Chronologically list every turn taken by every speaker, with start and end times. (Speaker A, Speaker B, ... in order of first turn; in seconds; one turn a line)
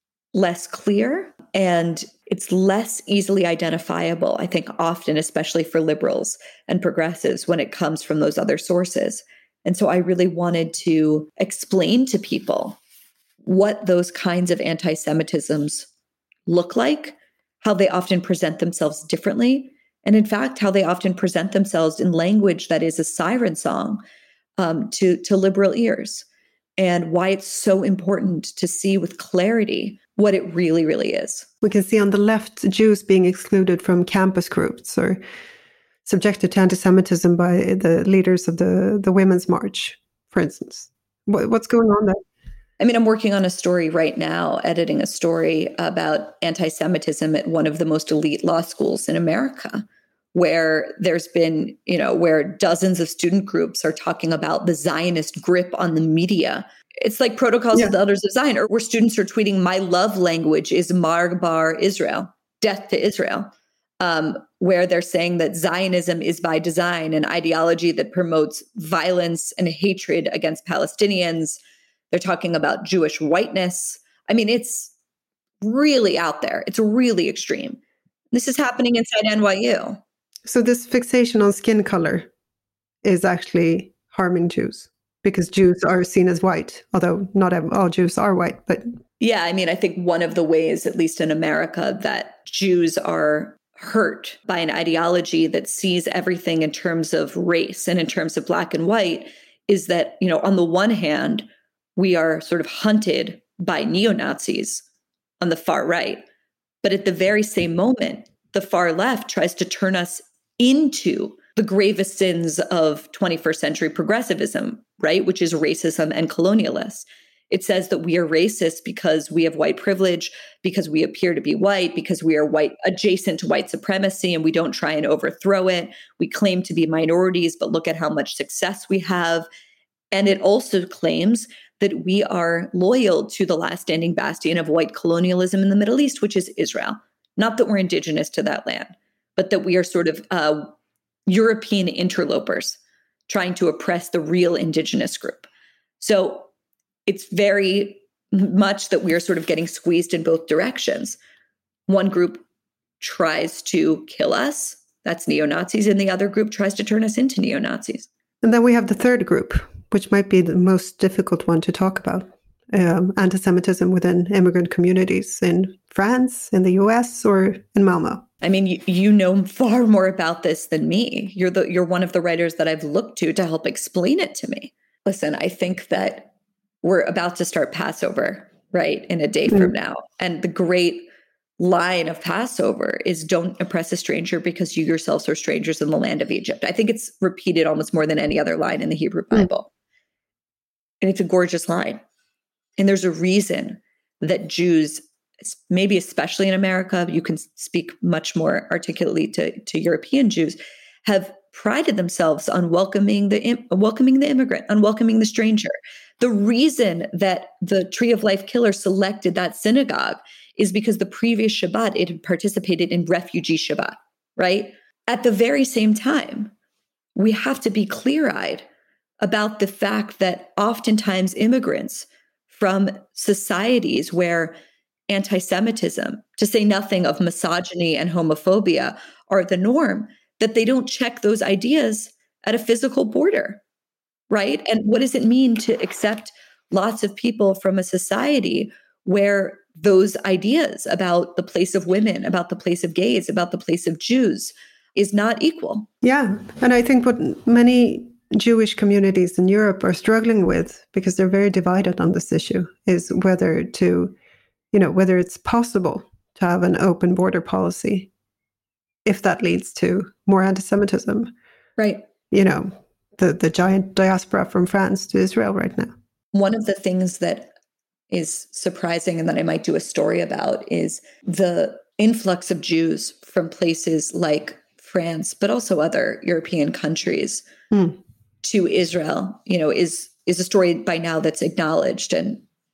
Speaker A: 0.3-12.8
Speaker A: 13.4-15.9
Speaker A: 16.5-24.0
Speaker A: 24.6-26.2
Speaker A: 26.8-31.5
Speaker B: 31.6-35.2
Speaker B: 36.0-42.2
Speaker A: 42.8-71.6
Speaker A: 72.1-74.9
Speaker A: 75.6-77.8
Speaker A: 78.3-80.0
Speaker B: 80.5-82.3
Speaker B: 83.0-88.8
Speaker A: 89.2-104.8
Speaker A: 105.4-106.2
Speaker A: 106.8-129.5
Speaker A: 130.1-140.7
Speaker A: 141.3-145.5
Speaker A: 146.0-146.5
Speaker A: 147.1-151.2
Speaker A: 151.9-152.4
Speaker A: 153.0-158.1
Speaker B: 158.4-168.2
Speaker A: 168.4-176.3
Speaker A: 176.8-189.7
Speaker A: 191.0-192.0
Speaker A: 192.8-216.5
Speaker A: 217.1-218.7
Speaker A: 219.2-224.5
Speaker A: 225.1-233.6
Speaker A: 234.3-245.9
Speaker B: 246.0-254.1
Speaker B: 254.7-258.1
Speaker B: 259.0-261.3
Speaker A: 261.8-262.0
Speaker B: 262.3-265.9
Speaker A: 266.3-267.5
Speaker A: 268.1-277.4
Speaker A: 278.4-282.4